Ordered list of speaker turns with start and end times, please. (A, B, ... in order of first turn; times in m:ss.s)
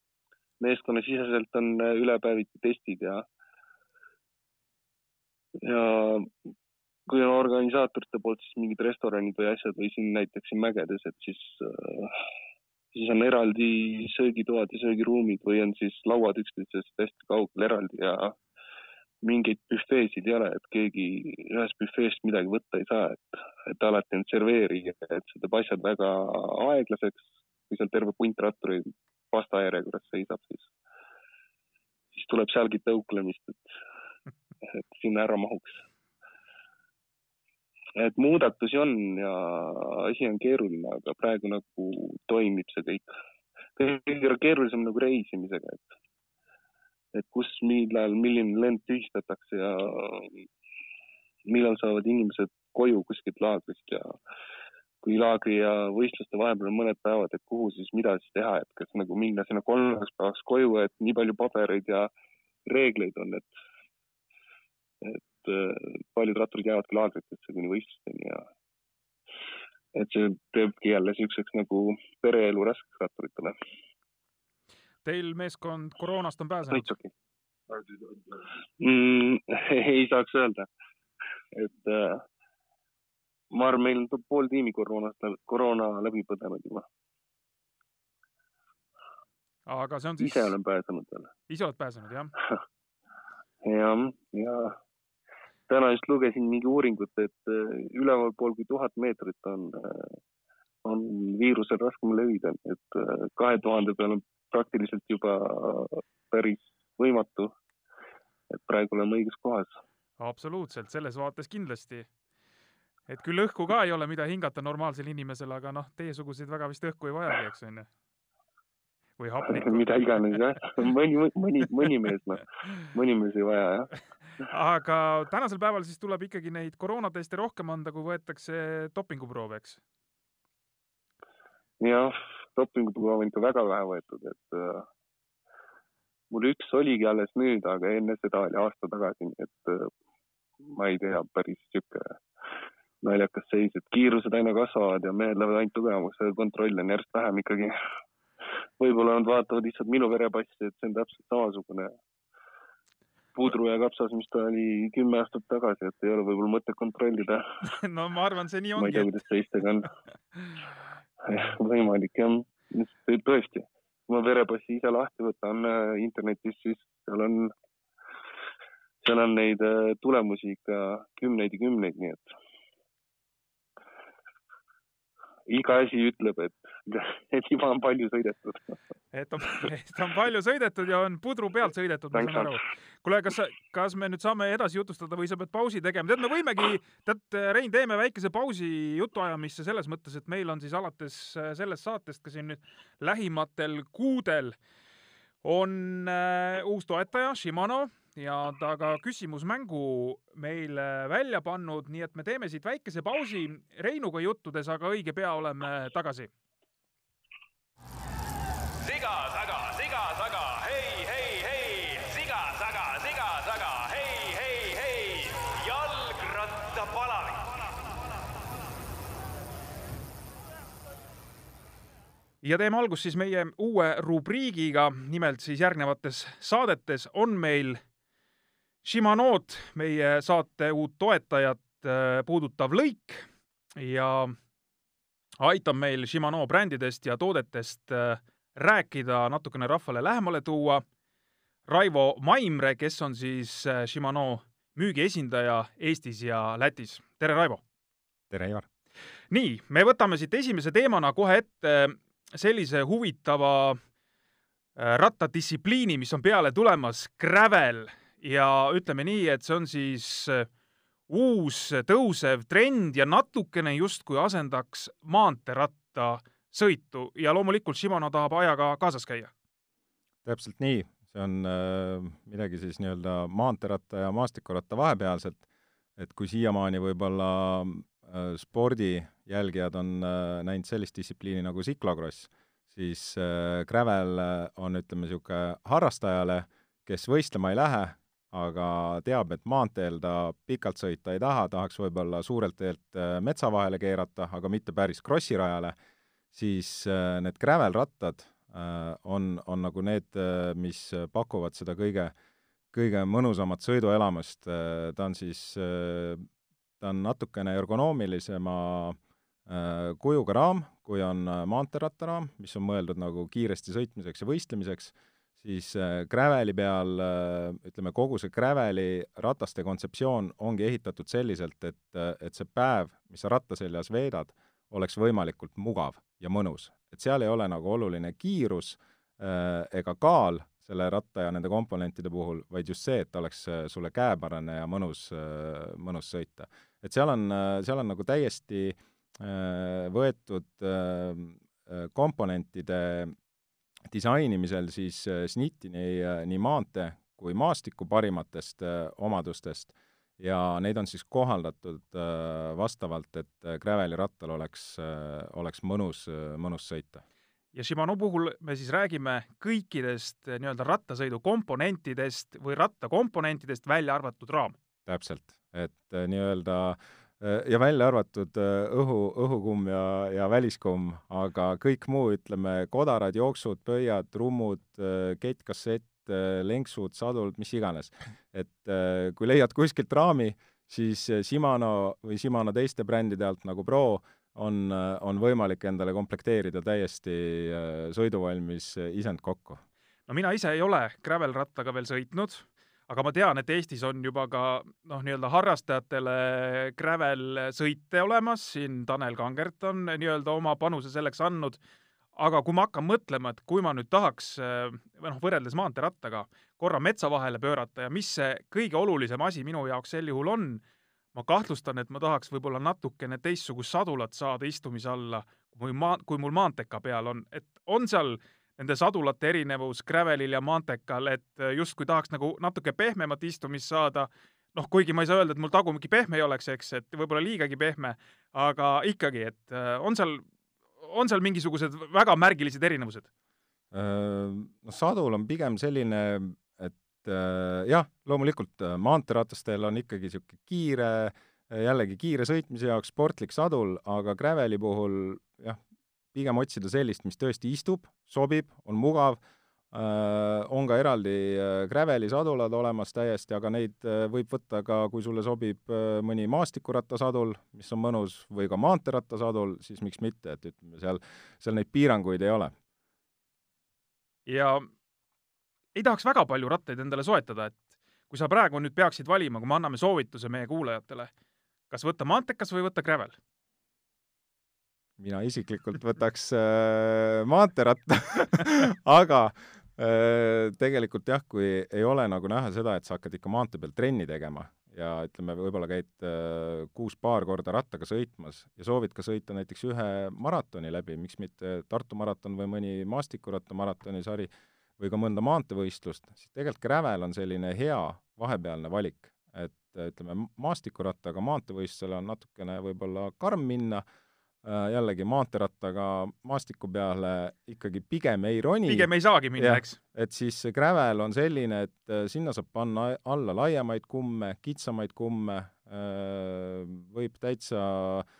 0:00.6-0:03.2 A
0:05.6-0:06.3 A
0:07.1-0:12.2 A
0:12.9-0:18.4 A
0:19.2-0:30.7 A
0:32.1-0:33.7 A
0:34.7-0:35.8 A
0:38.0-0:43.1 A
0:43.8-0:45.9 A
0:47.1-0:50.4 A
0:51.5-0:54.1 A
0:55.0-1:02.1 A
1:02.7-1:03.5 A
1:05.0-1:08.4 A
1:09.9-1:13.5 A
1:15.0-1:16.9 B
1:16.7-1:17.1 A
1:18.8-1:20.7 A
1:21.5-1:22.2 A
1:23.5-1:26.9 A
1:29.6-1:30.6 B
1:30.2-1:31.3 A
1:31.5-1:32.3 B
1:33.6-1:34.8 A
1:35.7-1:40.2 A
1:40.8-1:47.6 A
1:48.5-1:49.8 A
1:50.2-1:52.1 B
1:53.1-1:57.9 B
1:59.2-2:00.4 B
1:59.4-2:03.9 A
2:04.4-2:09.8 B
2:11.8-2:14.8 A
2:16.3-2:19.9 A
2:20.6-2:22.2 A
2:23.0-2:27.7 A
2:28.8-2:32.0 A
2:33.3-2:37.4 A
2:37.6-2:39.1 B
2:38.8-2:39.9 A
2:41.2-2:47.5 A
2:49.0-2:52.3 A
2:55.5-2:58.8 A
2:59.1-3:14.6 B
3:02.1-3:02.5 A
3:15.4-3:26.3 B
3:28.8-3:37.6 C
3:42.4-3:47.8 B
3:48.8-3:53.2 B
3:53.8-3:54.4 B
3:55.4-4:00.8 B
4:01.7-4:07.6 B
4:08.3-4:08.7 D
4:09.3-4:13.8 B
4:14.8-4:20.5 B
4:21.1-4:29.3 B
4:30.2-4:35.4 D
4:36.0-4:55.7 D
4:56.3-5:02.1 D
5:02.7-5:06.2 D
5:06.8-5:43.1 D
5:43.9-5:57.0 D
5:57.5-6:04.6 B
6:04.8-6:29.6 D
6:30.1-6:41.6 B
6:42.2-6:50.6 B
6:51.1-7:10.2 B
7:10.8-7:13.1 B
7:13.7-7:25.6 D
7:26.1-7:42.5 D
7:44.3-7:44.7 B
7:45.7-7:51.1 B
7:51.7-7:53.2 B
7:55.0-8:23.8 D
8:24.4-8:38.0 D
8:28.6-8:29.8 B